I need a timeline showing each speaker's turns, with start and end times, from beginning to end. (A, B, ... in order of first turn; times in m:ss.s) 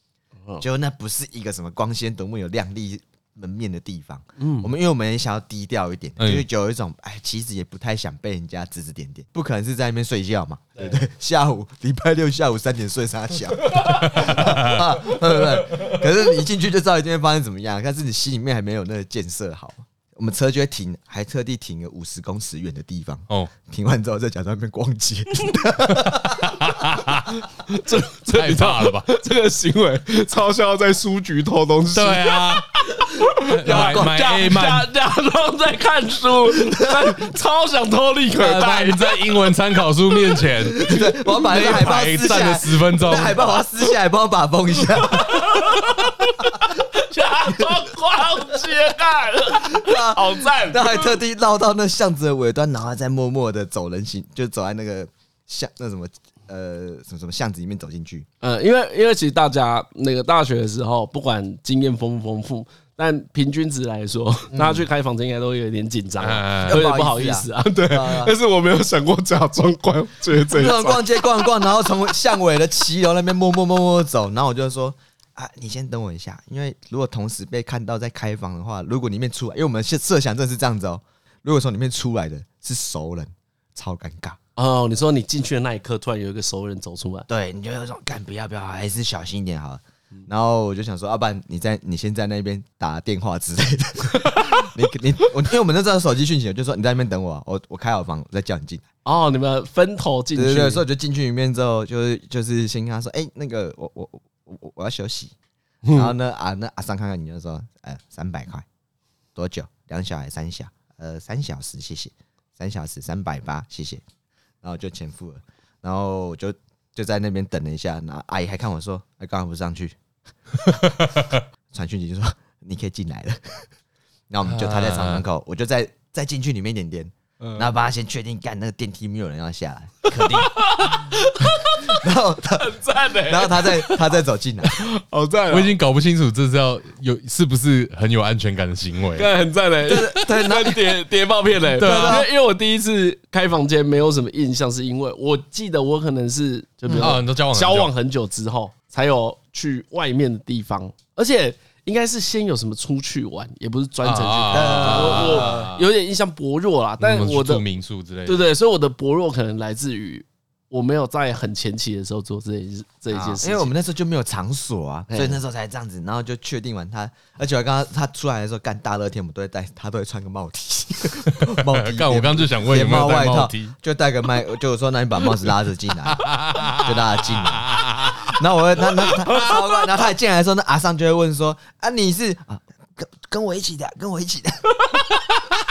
0:00.6-0:26.6 A
0:04.4-0:04.7 B
0:06.2-0:06.5 C
0:13.6-0:14.4 B
0:13.9-0:14.9 C
0:15.7-0:16.0 B
0:25.9-0:27.4 C
0:27.4-0:39.3 B
0:28.3-0:29.1 C
0:31.9-0:32.7 C
0:33.4-0:34.9 C
0:36.6-0:37.1 A
0:38.4-0:43.4 C
0:40.7-0:45.8 A
0:45.1-0:51.2 B
0:49.5-0:58.3 A
0:58.4-1:11.2 B
1:04.5-1:04.9 A
1:06.2-1:06.8 C
1:06.6-1:08.4 A
1:10.3-1:24.4 A
1:24.6-1:27.3 B
1:27.3-1:38.8 A
1:39.0-1:40.8 B
1:40.4-1:45.3 A
1:45.8-1:46.1 B
1:45.9-1:48.6 A
1:49.4-1:54.0 A
1:54.6-2:00.0 A
2:01.7-2:03.7 A
2:04.3-2:14.8 A
2:04.4-2:05.2 C
2:07.4-2:07.7 B
2:10.2-2:12.0 B
2:12.6-2:14.0 B
2:14.7-2:15.7 B
2:15.5-2:19.3 C
2:19.2-2:37.6 B
2:19.9-2:21.0 A
2:21.7-2:22.3 C
2:21.8-2:22.3 A
2:26.9-2:27.2 A
2:27.0-2:27.9 C
2:34.0-2:35.9 C
2:34.5-2:35.6 A
2:37.0-2:38.4 C
2:38.3-2:43.7 B
2:43.1-3:04.7 A
2:45.1-2:45.4 B
2:51.3-2:53.7 C
2:56.1-2:58.4 C
2:59.0-2:59.6 C